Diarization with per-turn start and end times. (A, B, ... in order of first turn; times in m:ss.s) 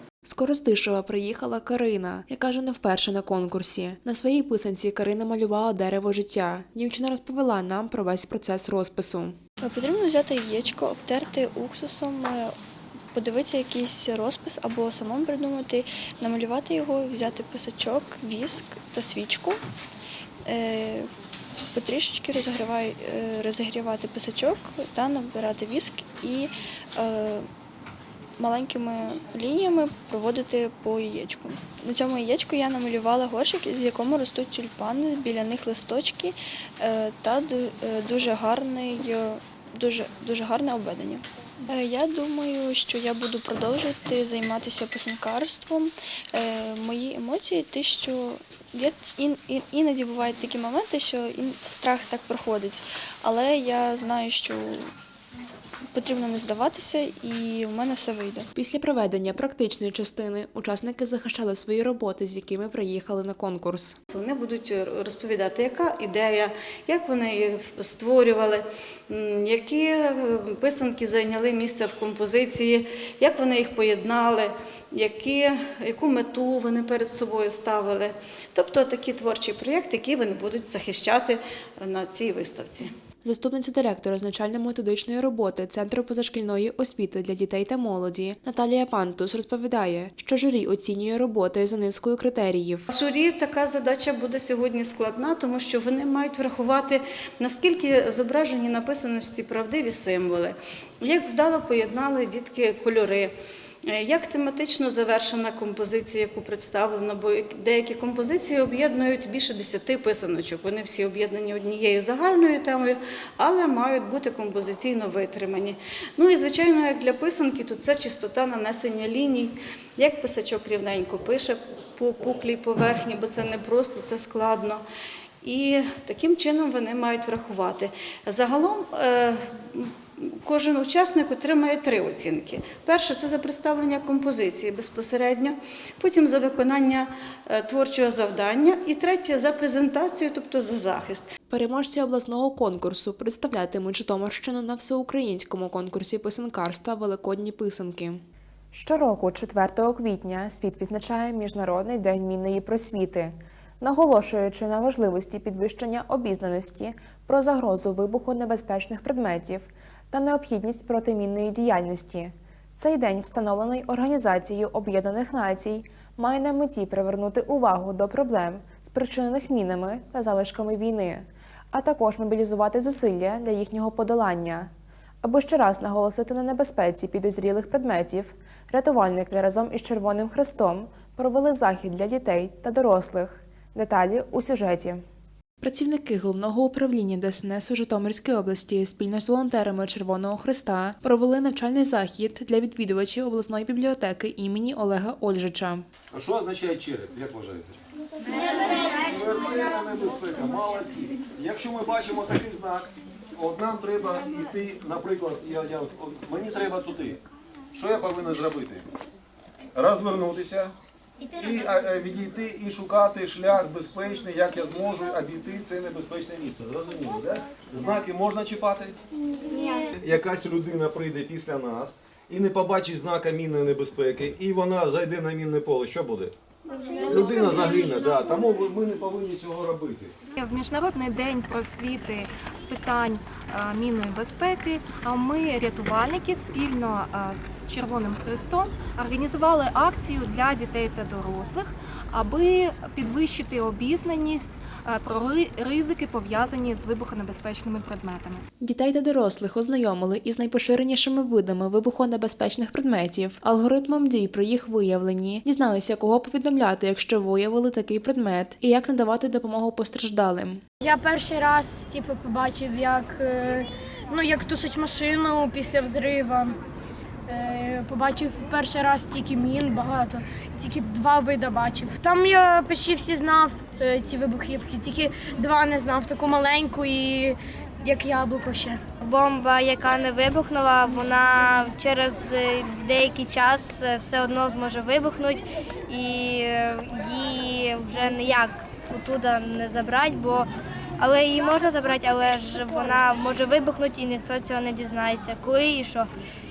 0:00.2-0:09.4 A
0:09.6-0:12.5 B
0:13.1-0:19.6 B
0:20.4-0:21.1 B
0:21.7-0:27.4 B
0:28.4-0:54.9 B
0:55.9-0:58.5 B
0:58.5-1:04.0 A
1:04.1-1:22.9 C
1:23.2-1:32.9 A
1:32.9-1:43.3 C
1:43.9-2:04.8 C
2:05.4-2:21.3 C
2:21.5-2:54.7 A
2:55.2-3:05.0 A
3:05.6-3:15.8 A
3:16.1-3:17.8 D
3:18.4-3:27.2 D
3:27.7-3:28.8 D
3:29.7-3:30.7 D
3:31.3-3:39.0 D
3:39.9-3:46.3 D
3:47.0-3:50.1 D
3:50.4-4:08.4 E
4:08.6-4:20.6 A
4:20.8-4:26.6 F
4:27.3-4:38.8 F
4:39.0-4:56.1 G